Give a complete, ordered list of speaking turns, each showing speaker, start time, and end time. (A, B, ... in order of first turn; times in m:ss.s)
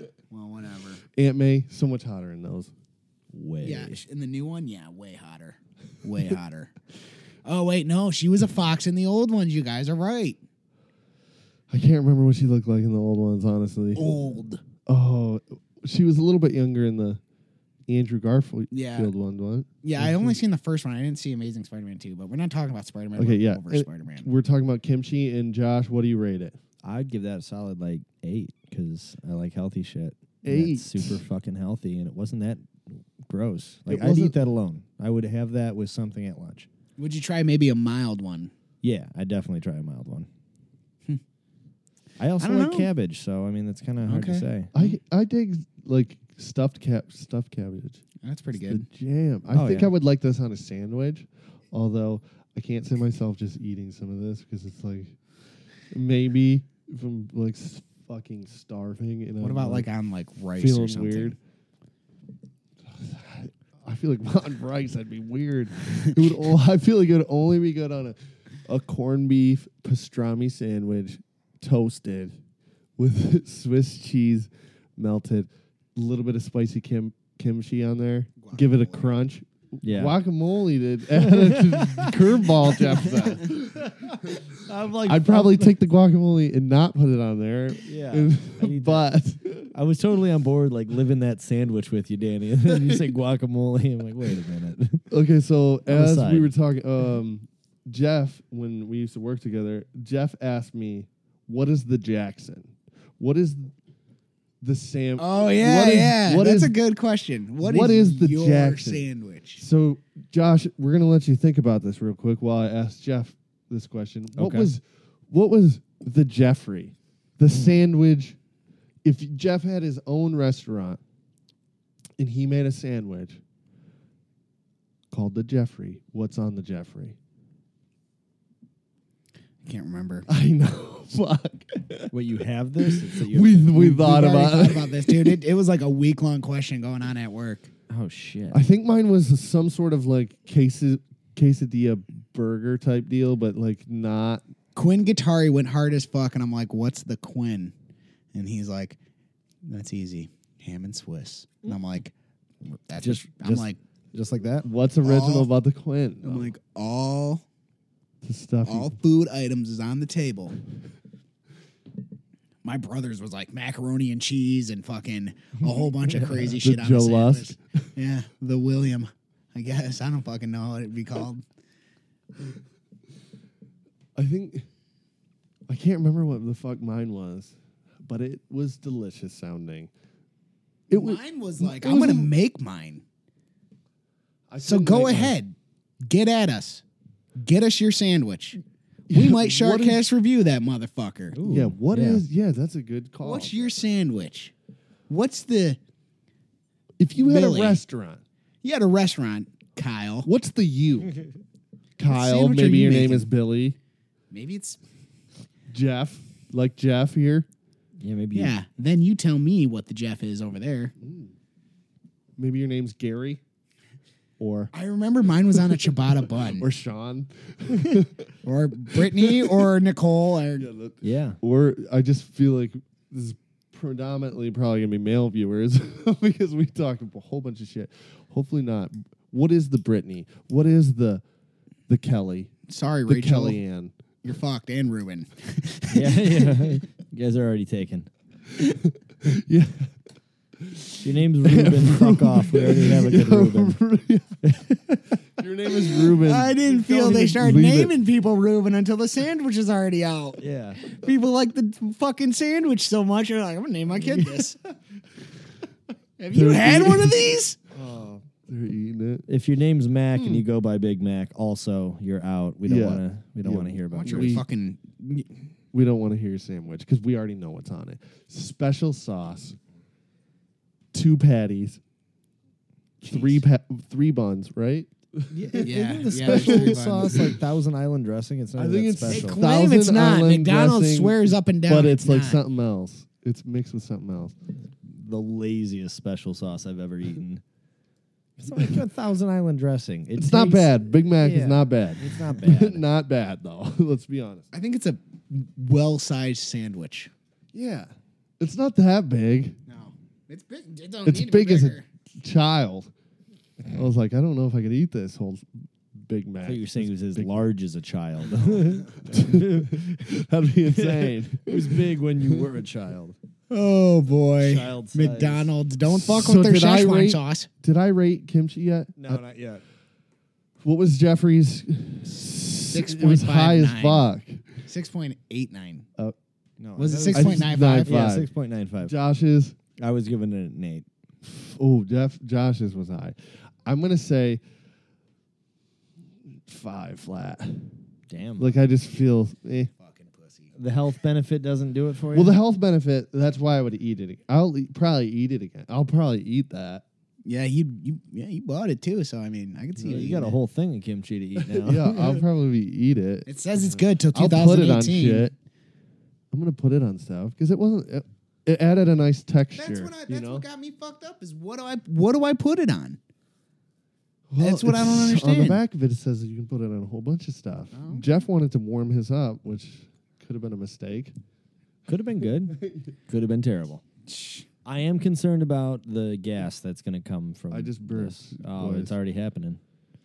0:00.3-0:01.0 A
0:01.1-0:02.7 B
0:03.3-0:04.0 C
0:03.6-0:06.7 A
0:07.4-0:10.4 A
0:11.7-0:14.1 B
0:14.0-0:14.6 A
0:14.9-0:17.2 B
0:17.9-0:20.4 B
0:18.7-0:19.1 A
0:19.8-0:24.3 A
0:23.2-0:26.6 B
0:26.8-0:36.7 C
0:30.4-0:31.2 B
0:33.9-0:34.4 B
0:37.0-0:38.5 A
0:38.8-0:40.3 C
0:42.2-0:44.7 C
0:42.4-0:42.9 A
0:44.0-0:45.0 A
0:44.7-0:48.0 B
0:48.2-0:48.9 A
0:48.6-0:55.2 B
0:49.5-0:49.9 C
0:55.9-0:59.9 B
0:59.4-1:01.4 A
1:00.6-1:01.4 B
1:02.9-1:12.4 B
1:13.0-1:23.8 B
1:18.4-1:19.2 A
1:19.8-1:20.2 C
1:21.2-1:25.7 C
1:25.0-1:29.7 B
1:27.8-1:35.1 C
1:32.7-1:33.0 B
1:35.1-1:43.7 B
1:35.9-1:36.5 C
1:44.6-1:46.8 B
1:45.2-1:49.6 A
1:47.6-1:49.1 B
1:49.6-1:58.4 B
1:54.4-1:54.7 C
1:59.0-2:01.0 B
2:02.2-2:03.4 B
2:05.1-2:07.2 B
2:09.6-2:10.3 A
2:10.3-2:12.1 B
2:12.1-2:13.8 C
2:12.8-2:15.4 B
2:13.7-2:17.7 A
2:17.9-2:18.6 C
2:18.5-2:24.4 B
2:24.8-2:27.7 A
2:28.3-2:29.0 A
2:29.6-2:32.1 A
2:32.6-2:33.8 A
2:33.0-2:34.7 C
2:34.6-2:36.5 B
2:35.0-2:35.5 A
2:36.2-2:37.4 A
2:38.2-2:38.9 B
2:38.6-2:40.6 A
2:42.6-2:51.4 A
2:46.4-2:47.6 B
2:54.2-2:54.7 B
2:55.7-2:59.9 B
3:00.9-3:02.3 B
3:00.9-3:03.0 A
3:04.5-3:05.4 B
3:04.6-3:06.8 A
3:07.4-3:11.4 A
3:09.1-3:10.0 B
3:11.4-3:12.2 C
3:11.5-3:13.8 B
3:13.2-3:14.5 A
3:15.1-3:15.8 A
3:17.0-3:18.2 B
3:17.2-3:17.8 A
3:18.6-3:20.3 A
3:20.2-3:21.1 B
3:22.0-3:23.8 B
3:22.1-3:23.3 A
3:24.3-3:24.8 A
3:25.7-3:27.5 B
3:28.0-3:28.6 C
3:28.3-3:30.9 A
3:31.0-3:31.3 B
3:32.4-3:33.4 B
3:34.4-3:34.7 B
3:34.7-3:36.7 A
3:36.4-3:38.3 B
3:38.4-3:40.7 A
3:38.9-3:39.7 B
3:40.6-3:51.2 B
3:41.0-3:41.4 C
3:51.9-3:52.5 B
3:52.7-3:53.6 A
3:53.1-3:53.9 B
3:54.2-3:56.5 A
3:55.9-3:58.1 C
3:58.7-3:59.9 B
4:00.6-4:04.4 B
4:01.0-4:03.8 C
4:04.4-4:05.0 C
4:05.3-4:07.9 B
4:06.2-4:14.6 A
4:06.8-4:07.3 C
4:10.4-4:10.8 C
4:14.0-4:14.5 C
4:16.2-4:17.6 A
4:16.3-4:17.2 B
4:17.8-4:18.2 C
4:18.2-4:19.3 B
4:19.3-4:24.4 C
4:20.1-4:20.4 B
4:22.6-4:24.4 B
4:23.9-4:25.5 A
4:25.7-4:29.6 B
4:30.9-4:31.8 B
4:33.0-4:37.4 B
4:33.0-4:33.4 A
4:35.3-4:39.4 C
4:35.6-4:37.2 A
4:38.6-4:44.4 B
4:39.1-4:42.4 A
4:44.8-4:47.4 C
4:48.4-4:52.8 C
4:48.5-4:48.8 B
4:50.2-4:54.5 B
4:54.5-4:57.1 A
4:57.5-4:59.6 B
4:59.7-5:01.9 A
5:01.0-5:02.9 B
5:03.7-5:07.5 B
5:06.4-5:10.2 C
5:08.4-5:12.5 B
5:10.7-5:13.2 C
5:13.5-5:17.5 A
5:14.4-5:15.5 C
5:15.8-5:19.2 B
5:19.0-5:19.6 C
5:20.6-5:24.6 B
5:22.7-5:24.0 A
5:24.7-5:25.9 A
5:26.6-5:29.0 C
5:26.8-5:28.0 A
5:27.1-5:28.3 B
5:28.8-5:29.6 B
5:29.8-5:30.9 C
5:31.2-5:34.4 B
5:36.4-5:37.7 B
5:38.1-5:38.5 C
5:38.4-5:39.7 B
5:39.8-5:40.5 A
5:40.6-5:42.4 C
5:42.1-5:46.8 B
5:47.2-5:50.4 A
5:49.8-5:50.1 B
5:49.9-5:52.2 C
5:51.4-5:55.3 B
5:53.3-5:55.3 A
5:56.3-6:00.4 B
5:59.6-6:03.0 A
6:04.3-6:11.2 B
6:04.4-6:05.6 A
6:07.7-6:08.1 A
6:11.9-6:13.8 C
6:12.5-6:12.9 B
6:14.1-6:14.5 A
6:14.6-6:19.6 C
6:17.5-6:19.0 B